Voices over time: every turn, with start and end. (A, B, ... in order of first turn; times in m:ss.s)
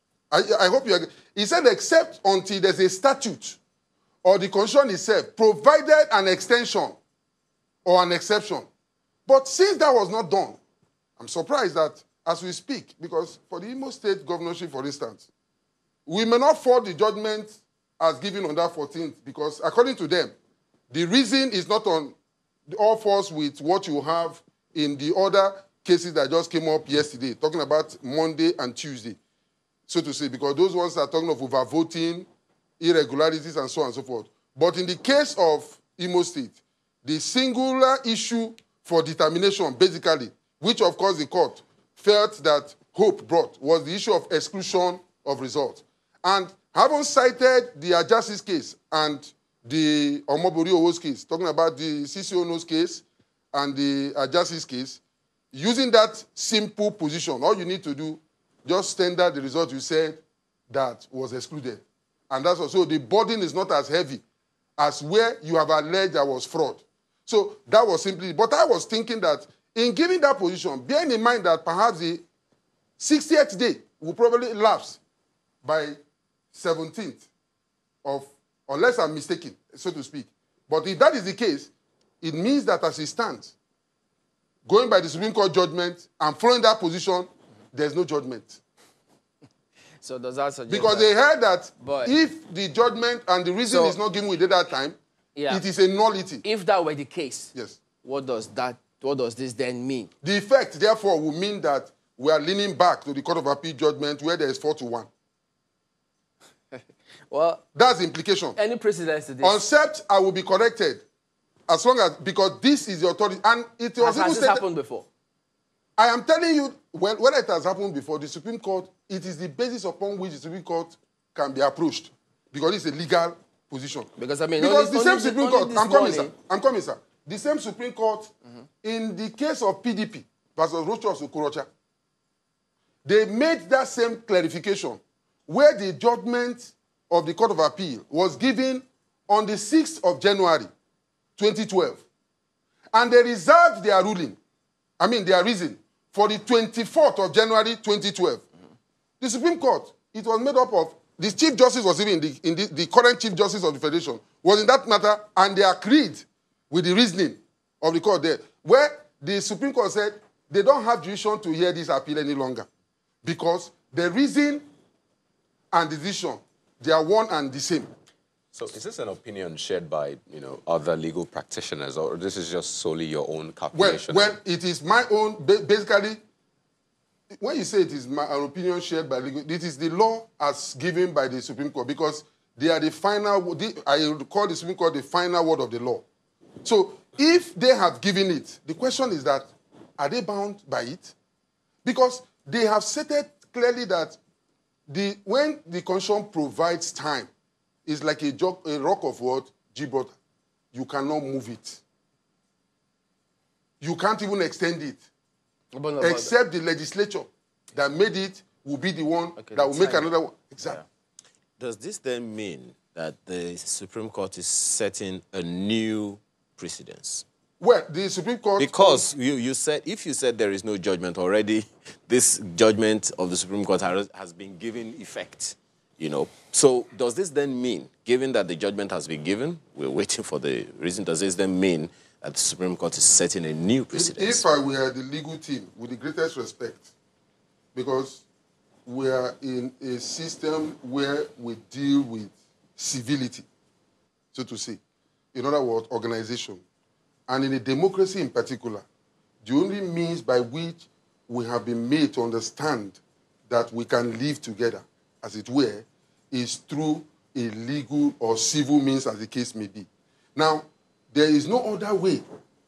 0:00.3-0:03.6 A
0:04.2-0:07.0 A
0:07.8-0:08.7 A
0:09.3-0:10.6 A
0:11.2-0:15.3 A
0:16.1-0:20.3 A
0:20.9-0:22.2 A
0:22.7-0:29.2 A
0:29.9-0:32.3 A
0:32.8-0:55.0 A
0:55.5-1:04.2 A
1:04.8-1:12.2 A
1:13.0-1:15.0 A
1:15.6-1:16.0 A
1:16.5-1:17.2 A
1:18.0-1:21.7 A
1:22.2-1:23.5 A
1:24.7-1:28.6 A
1:30.0-1:31.1 B
1:30.7-1:35.0 A
1:31.8-1:32.1 B
1:33.7-1:34.0 B
1:35.4-1:35.6 B
1:35.5-1:36.4 A
1:36.4-1:37.5 B
1:38.0-1:40.1 B
1:40.2-1:45.1 A
1:46.7-1:47.6 B
1:47.8-1:48.6 A
1:48.6-1:49.6 B
1:49.4-1:51.0 A
1:51.7-1:54.6 A
1:54.0-1:55.1 B
1:56.0-2:08.3 A
2:04.2-2:06.3 B
2:08.8-2:11.7 A
2:13.0-2:20.7 A
2:21.4-2:22.0 A
2:22.9-2:24.4 A
2:25.0-2:28.4 A
2:29.2-2:42.7 A
2:43.2-2:44.7 A
2:45.7-2:47.9 A
2:48.5-2:54.3 C
2:53.7-2:56.2 A
2:57.3-3:06.0 A
3:06.6-3:11.1 A
3:11.8-3:14.2 A
3:14.9-3:17.3 A
3:17.9-3:20.1 A
3:20.7-3:21.8 A
3:23.8-3:25.0 A
3:25.7-3:26.3 B
3:26.0-3:30.8 A
3:29.4-3:30.1 B
3:31.6-3:37.2 D
3:37.6-3:39.1 A
3:38.6-3:54.4 D
3:53.9-3:56.9 A
3:57.8-3:58.2 A
3:58.9-4:03.4 A
4:04.3-4:04.8 A
4:05.3-4:06.6 A
4:07.3-4:08.8 A
4:09.4-4:22.2 A